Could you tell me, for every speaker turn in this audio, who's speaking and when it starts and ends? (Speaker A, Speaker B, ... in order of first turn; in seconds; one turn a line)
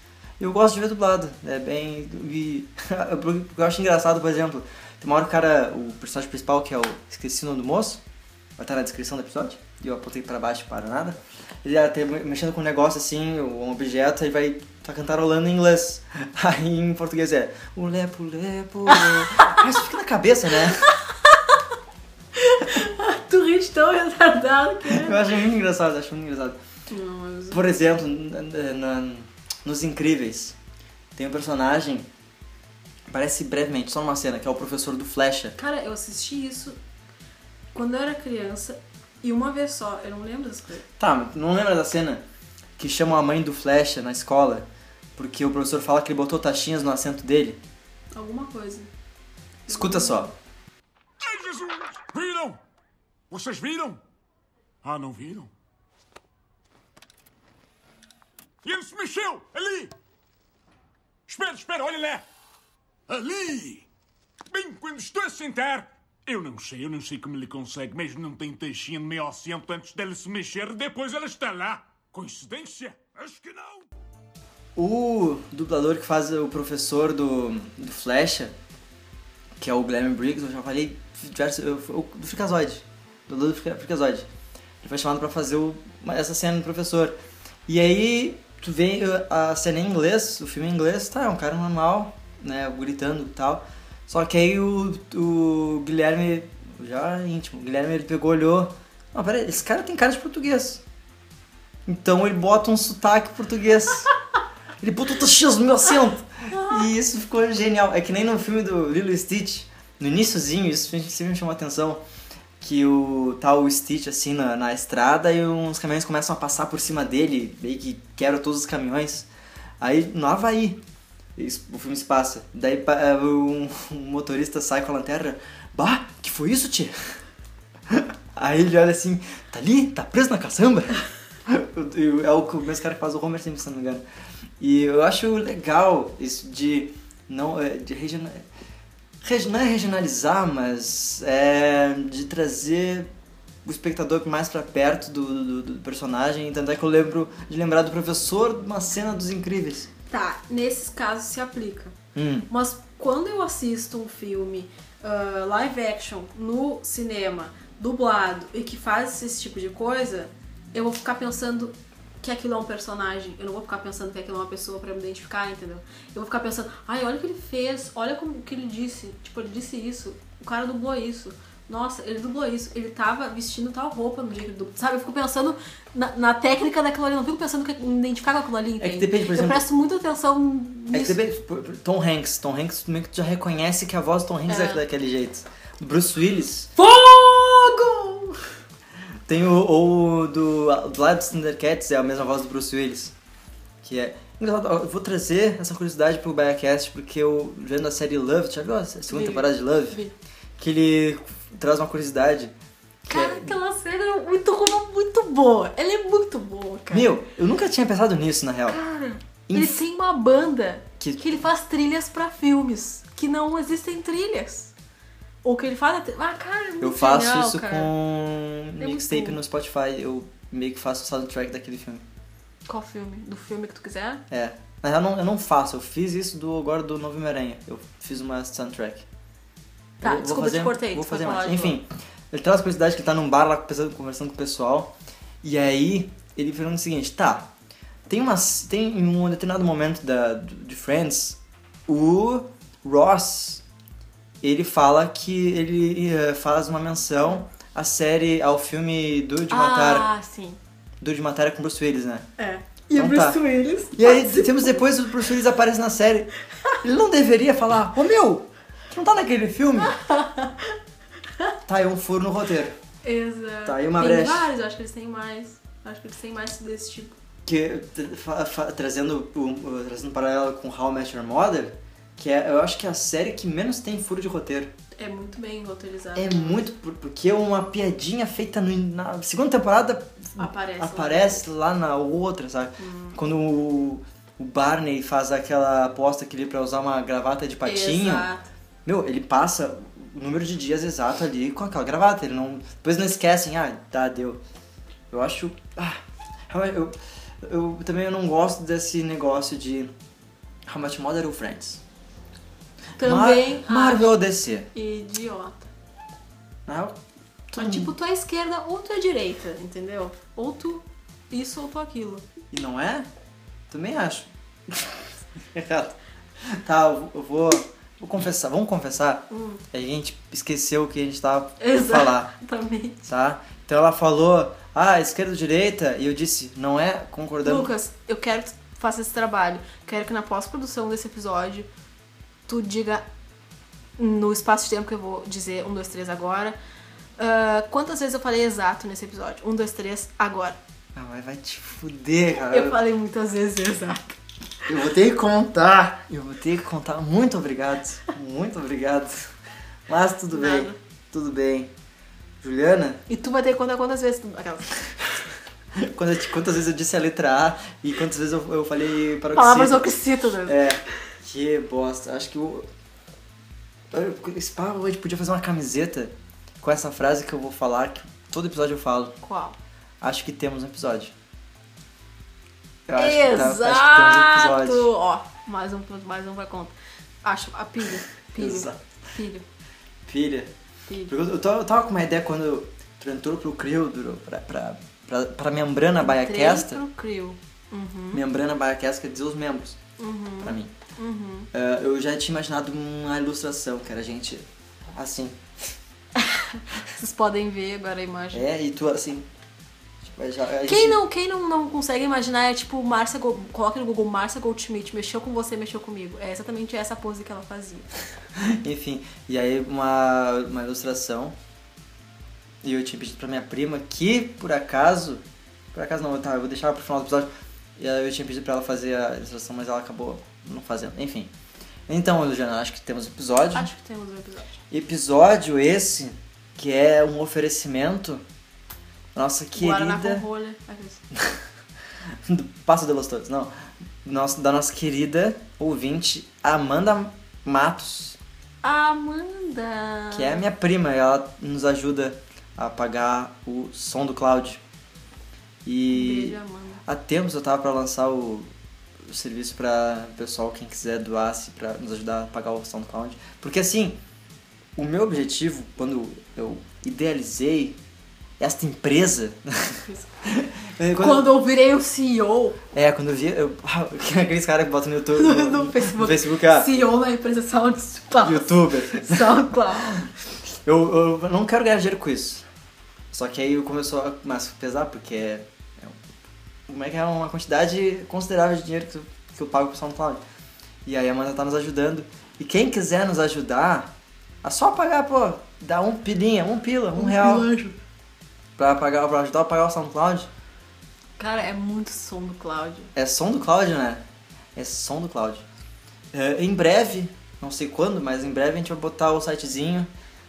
Speaker A: 0.4-8.0
Speaker A: 8.6-20.9
Speaker B: 18.9-19.6
Speaker B: 20.8-21.6
Speaker B: 22.3-25.3
Speaker A: 24.9-26.6
Speaker B: 26.9-27.7
Speaker A: 27.5-30.6
Speaker A: 31.1-32.1
Speaker A: 33.1-35.5
Speaker B: 35.5-36.8
Speaker B: 37.7-40.8
Speaker A: 41.0-42.2
Speaker A: 42.8-47.6
Speaker B: 48.1-48.9
Speaker B: 49.7-50.3
Speaker A: 49.7-50.3
Speaker C: 51.2-52.6
Speaker C: 53.3-54.0
Speaker C: 54.8-55.5
Speaker C: 58.6-59.9
Speaker C: 61.3-62.2
Speaker C: 63.1-63.9
Speaker C: 64.5-73.8
Speaker A: 74.8-78.5
Speaker A: 79.6-84.3
Speaker A: 84.8-87.1
Speaker A: 87.7-100.8
Speaker A: 101.8-104.1
Speaker A: 104.8-112.0
Speaker A: 112.6-119.3
Speaker A: 119.8-120.8
Speaker A: 121.3-127.1
Speaker A: 127.9-134.0
Speaker A: 134.6-138.4
Speaker A: 139.2-143.1
Speaker A: 143.6-149.9
Speaker B: 150.1-151.9
Speaker A: 152.1-152.5
Speaker B: 152.5-181.2
Speaker A: 178.8-179.6
Speaker A: 180.9-186.7
Speaker B: 184.5-184.8
Speaker B: 186.8-188.4
Speaker A: 189.3-193.1
Speaker A: 193.8-200.0
Speaker B: 199.1-200.1
Speaker A: 200.6-202.5
Speaker A: 203.1-203.6
Speaker B: 203.1-207.1
Speaker A: 206.9-208.8
Speaker B: 208.7-214.7
Speaker A: 209.5-209.8
Speaker A: 211.0-211.4
Speaker B: 215.4-217.9
Speaker A: 216.8-222.0
Speaker B: 218.8-219.4
Speaker B: 222.7-224.2
Speaker A: 224.3-229.1
Speaker B: 230.0-231.8
Speaker A: 230.0-237.5
Speaker A: 238.1-243.6
Speaker A: 244.4-250.1
Speaker B: 249.5-250.6
Speaker A: 251.0-252.3
Speaker B: 252.4-254.8
Speaker A: 252.9-256.3
Speaker A: 256.8-260.0
Speaker B: 259.8-260.8
Speaker A: 261.7-262.8
Speaker B: 263.0-267.1
Speaker A: 263.6-264.5
Speaker A: 267.4-274.7
Speaker B: 275.0-276.7
Speaker A: 276.1-288.3
Speaker B: 280.4-281.4
Speaker B: 282.8-283.2
Speaker B: 287.6-288.4
Speaker A: 288.8-294.4
Speaker A: 295.1-299.9
Speaker A: 300.7-301.8
Speaker B: 303.0-304.1
Speaker A: 303.0-304.7
Speaker B: 304.7-305.7
Speaker A: 306.6-307.0
Speaker A: 307.5-307.9
Speaker B: 307.5-312.2
Speaker A: 312.5-313.1
Speaker A: 313.7-322.3
Speaker B: 319.3-319.6
Speaker B: 321.6-323.1
Speaker A: 323.1-327.7
Speaker B: 327.4-331.7
Speaker B: 332.5-333.1
Speaker B: 334.0-336.6
Speaker B: 337.2-340.6
Speaker A: 340.9-342.8
Speaker B: 342.5-344.2
Speaker A: 344.7-349.3
Speaker A: 349.9-351.7
Speaker B: 350.3-350.8
Speaker A: 352.4-353.0
Speaker B: 353.1-354.8
Speaker A: 355.7-359.9
Speaker B: 359.3-360.6
Speaker A: 360.4-362.7
Speaker A: 363.9-369.2
Speaker B: 369.2-369.6
Speaker A: 370.0-371.1
Speaker A: 372.9-374.9
Speaker B: 372.9-379.4
Speaker A: 378.4-378.8
Speaker A: 380.0-380.5
Speaker B: 380.9-381.1
Speaker A: 381.1-386.8
Speaker B: 386.0-388.2
Speaker A: 388.1-389.8
Speaker B: 390.0-391.5
Speaker A: 390.4-390.7
Speaker A: 391.5-395.5
Speaker B: 396.1-398.4
Speaker A: 398.3-399.3
Speaker A: 400.0-401.0
Speaker B: 400.7-407.9
Speaker A: 408.4-411.4
Speaker A: 412.6-415.2
Speaker A: 415.7-421.3
Speaker A: 421.9-423.7
Speaker B: 423.5-424.6
Speaker A: 424.7-428.2
Speaker A: 429.1-430.2
Speaker B: 429.5-431.0
Speaker A: 431.1-431.4
Speaker A: 432.2-433.5
Speaker A: 434.0-438.2
Speaker B: 438.6-440.4
Speaker A: 440.1-444.6
Speaker A: 445.6-448.5
Speaker B: 445.9-446.8
Speaker A: 449.0-454.0
Speaker A: 454.8-457.8
Speaker A: 458.4-461.3
Speaker B: 459.8-460.1
Speaker B: 460.9-462.6
Speaker A: 462.7-466.7
Speaker B: 465.1-470.1
Speaker A: 468.2-470.1
Speaker A: 470.6-472.5
Speaker A: 473.1-476.0
Speaker A: 476.7-480.2
Speaker A: 480.8-487.5
Speaker B: 486.9-487.8
Speaker A: 488.6-490.3
Speaker B: 491.2-492.9
Speaker A: 492.9-494.0
Speaker A: 494.5-495.4
Speaker A: 496.1-499.9